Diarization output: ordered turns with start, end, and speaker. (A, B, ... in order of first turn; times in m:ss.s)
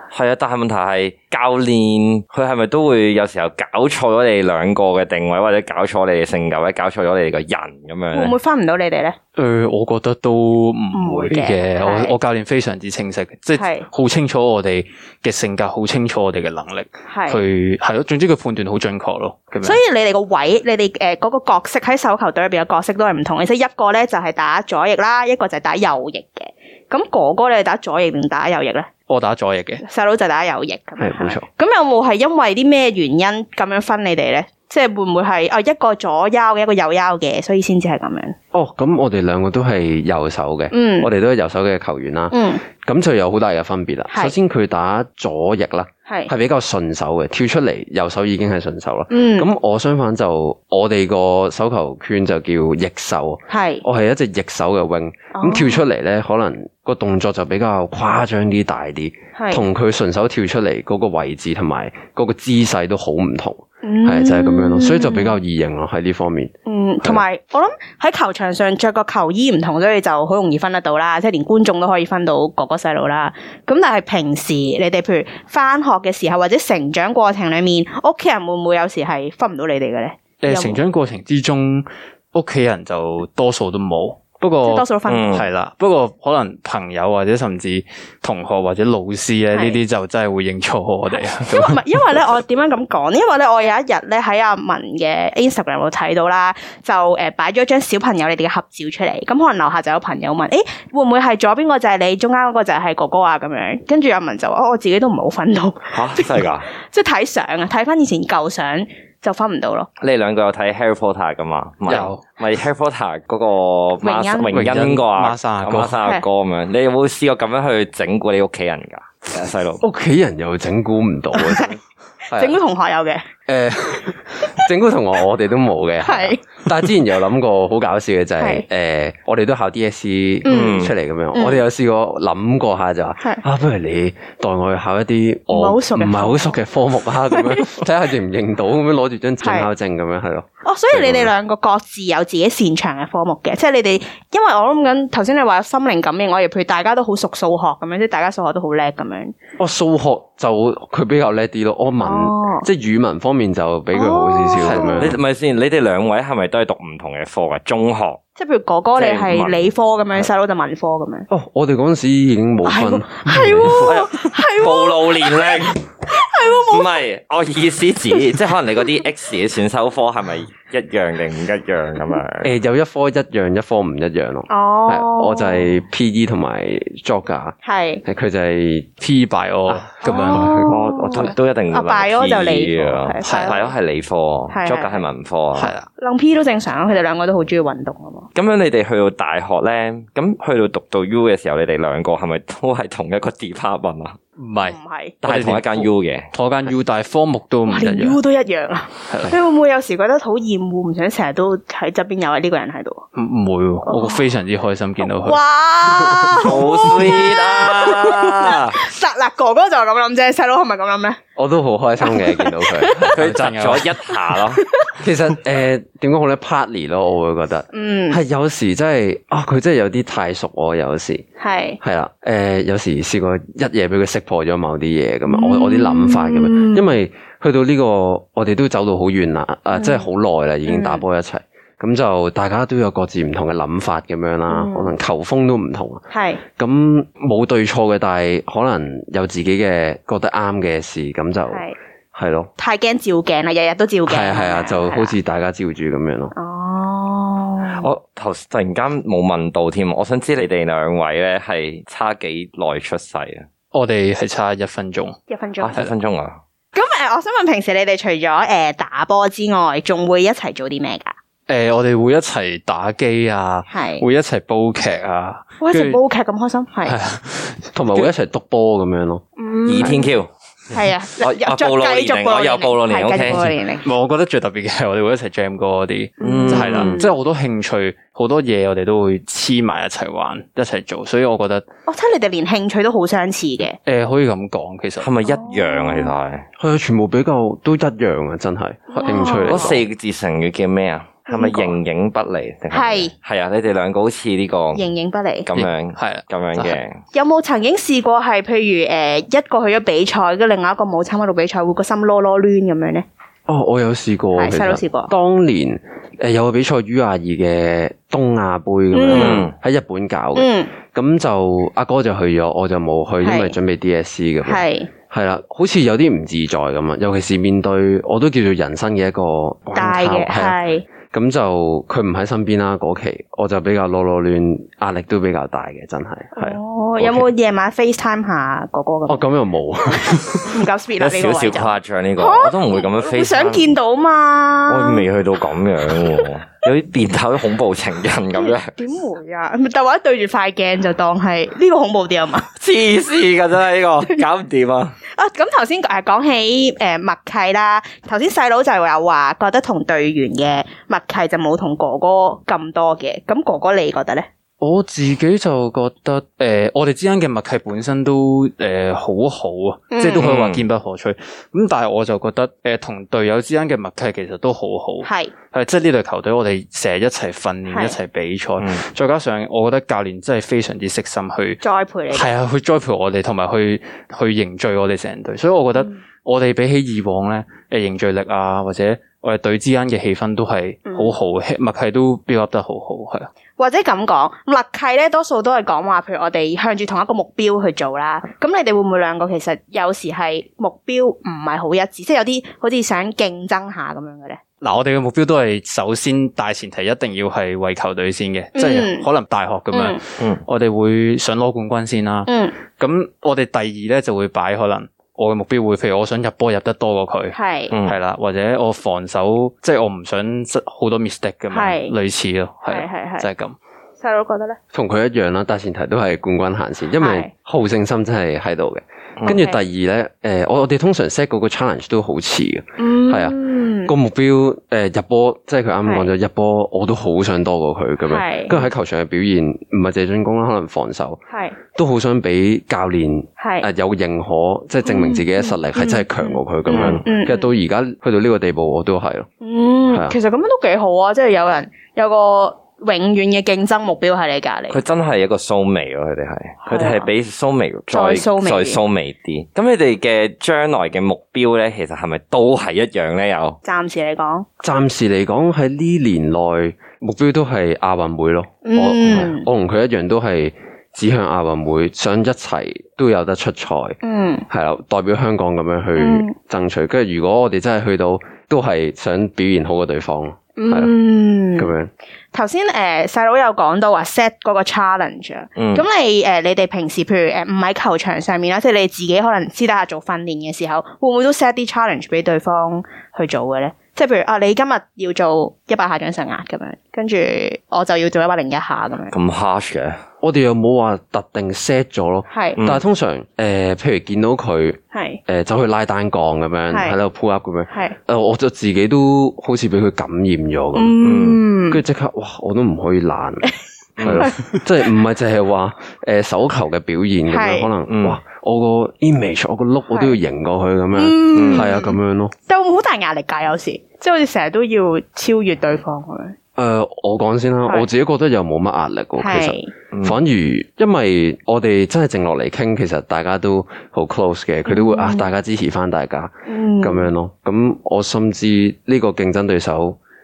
0:00.1-0:08.3 A
0:08.1-0:09.2 B
0:09.3-0:19.8 C
0:10.9-0:12.1 B
0:13.6-0:13.9 B
0:17.1-0:17.4 B
0:19.6-0:28.9 B
0:29.1-0:29.8 C
0:29.8-0:38.4 B
0:31.0-0:31.4 D
0:38.5-1:07.2 D
0:40.7-0:41.1 B
0:42.3-0:42.6 B
0:49.1-0:49.5 B
0:53.5-0:53.8 B
0:55.3-0:55.8 B
0:59.4-0:59.6 B
1:03.8-1:05.4 B
1:06.6-1:20.8 B
1:20.4-1:31.8 C
1:24.6-1:25.4 B
1:25.1-1:25.5 A
1:29.5-1:29.8 B
1:31.1-1:49.9 B
1:45.9-1:46.7 A
1:50.0-1:59.8 A
1:51.9-1:52.2 C
1:54.0-1:54.7 B
1:54.5-1:56.0 C
1:59.8-2:02.6 D
2:01.3-2:01.7 B
2:02.3-2:03.2 B
2:03.5-2:21.3 D
2:06.0-2:06.4 B
2:08.4-2:08.6 B
2:10.4-2:11.6 B
2:10.5-2:10.9 A
2:15.5-2:16.5 B
2:17.3-2:17.7 B
2:19.4-2:19.7 B
2:20.6-2:29.3 B
2:29.6-2:35.2 D
2:32.0-2:32.7 B
2:33.9-2:35.0 B
2:34.6-2:35.0 C
2:35.0-2:38.2 A
2:38.4-2:41.3 B
2:39.0-2:39.7 A
2:41.3-2:43.9 D
2:42.6-2:47.0 B
2:43.8-2:45.8 A
2:46.5-2:52.5 A
2:52.4-2:58.9 D
2:54.5-2:55.6 B
2:57.6-2:58.0 B
2:59.0-3:00.7 C
2:59.7-3:00.7 D
3:00.0-3:03.7 B
3:00.7-3:05.7 A
3:03.2-3:03.6 C
3:04.5-3:05.0 B
3:05.5-3:05.9 C
3:06.0-3:08.3 B
3:08.3-3:14.2 A
3:14.4-3:18.2 C
3:14.6-3:15.2 B
3:15.2-3:16.3 A
3:17.7-3:23.1 B
3:19.1-3:19.4 C
3:23.2-3:25.4 C
3:23.8-3:24.2 B
3:25.0-3:31.2 B
3:26.4-3:28.8 A
3:31.4-3:33.0 D
3:32.0-3:33.2 B
3:33.0-3:34.6 A
3:33.2-3:33.9 C
3:34.5-3:35.0 B
3:35.0-3:41.2 D
3:37.7-3:38.2 B
3:41.4-3:41.8 B
3:41.8-4:02.5 D
3:45.3-3:47.0 B
3:49.7-3:50.1 B
3:50.7-3:51.0 B
3:54.5-3:54.9 B
3:56.1-3:56.4 B
4:01.5-4:01.8 B
4:02.6-4:05.1 B
4:04.1-4:06.3 D
4:06.3-4:07.9 B
4:07.8-4:13.5 A
4:13.7-4:15.2 C
4:15.3-4:15.8 B
4:15.6-4:16.4 A
4:16.7-4:21.1 B
4:21.5-4:26.0 C
4:23.7-4:24.0 B
4:25.6-4:27.0 B
4:26.8-4:28.1 C
4:27.7-4:29.2 D
4:29.4-4:30.1 B
4:29.7-4:30.3 A
4:30.7-4:33.9 B
4:31.2-4:33.5 A
4:33.1-4:41.7 C
4:36.2-4:37.1 B
4:36.2-4:37.0 A
4:41.9-4:43.8 B
4:43.8-4:45.1 C
4:45.0-4:46.4 A
4:45.2-4:46.1 B
4:46.6-4:49.8 D
4:48.9-4:49.7 B
4:49.4-4:54.8 A
4:51.3-4:51.8 B
4:52.7-4:53.1 B
4:54.7-4:55.5 B
4:55.4-4:57.0 A
4:55.6-4:56.8 C
4:57.1-5:03.1 B
5:03.5-5:20.6 D
5:04.4-5:05.1 B
5:08.9-5:09.4 B
5:09.1-5:09.5 A
5:10.3-5:10.7 B
5:13.2-5:13.6 B
5:14.4-5:14.9 B
5:19.7-5:20.8 B
5:21.1-5:27.3 D
5:26.3-5:29.2 B
5:29.1-5:30.5 D
5:30.4-5:35.0 B
5:31.0-5:33.7 A
5:34.7-5:38.7 A
5:38.3-5:42.5 B
5:42.6-5:45.0 A
5:45.1-5:54.3 B
5:54.6-6:11.6 C
5:59.9-6:00.2 B
6:00.2-6:00.6 A
6:05.0-6:05.3 B
6:07.7-6:08.0 B
6:11.6-6:12.3 B
6:12.1-6:23.3 C
6:20.9-6:21.1 B
6:23.6-6:34.4 B
6:34.6-6:53.6 C
6:38.6-6:39.1 B
6:39.7-6:40.0 B
6:40.2-6:40.4 A
6:42.3-6:42.6 B
6:47.3-6:47.7 B
6:47.7-6:48.0 A
6:51.5-6:51.9 B
6:52.7-6:53.3 B
6:54.0-6:54.6 B
6:54.7-7:11.2 D
6:57.0-6:57.3 B
6:59.2-6:59.6 B
7:02.8-7:03.9 B
7:08.1-7:08.6 B
7:11.3-7:11.6 B
7:11.7-7:19.3 D
7:13.4-7:13.7 B
7:14.8-7:17.5 B
7:16.7-7:17.0 A
7:19.4-7:24.8 B
7:19.9-7:20.2 D
7:24.7-7:33.6 A
7:26.6-7:27.1 B
7:27.9-7:28.8 B
7:33.6-7:34.4 B
7:34.6-7:44.0 D
7:38.6-7:39.5 B
7:44.0-7:44.4 B
7:44.5-7:50.9 D
7:46.0-7:46.3 B
7:50.6-7:51.7 B
7:51.6-7:51.9 D
7:52.3-8:09.1 B
7:55.6-7:55.8 A
8:09.1-8:10.0 A
8:10.2-8:21.0 D
8:12.3-8:12.6 B
8:14.9-8:15.2 B
8:16.7-8:17.0 B
8:17.7-8:18.0 B
8:20.7-8:21.8 B
8:21.0-8:21.4 A
8:21.7-8:23.5 D
8:24.0-8:24.3 A
8:24.0-8:32.3 D
8:24.1-8:24.6 B
8:27.3-8:27.7 B
8:27.9-8:28.2 A
8:29.9-8:30.2 B
8:30.9-8:36.4 B
8:31.3-8:31.7 A
8:36.6-8:50.0 D
8:39.2-8:39.7 B
8:44.6-8:45.3 B
8:46.5-8:47.1 B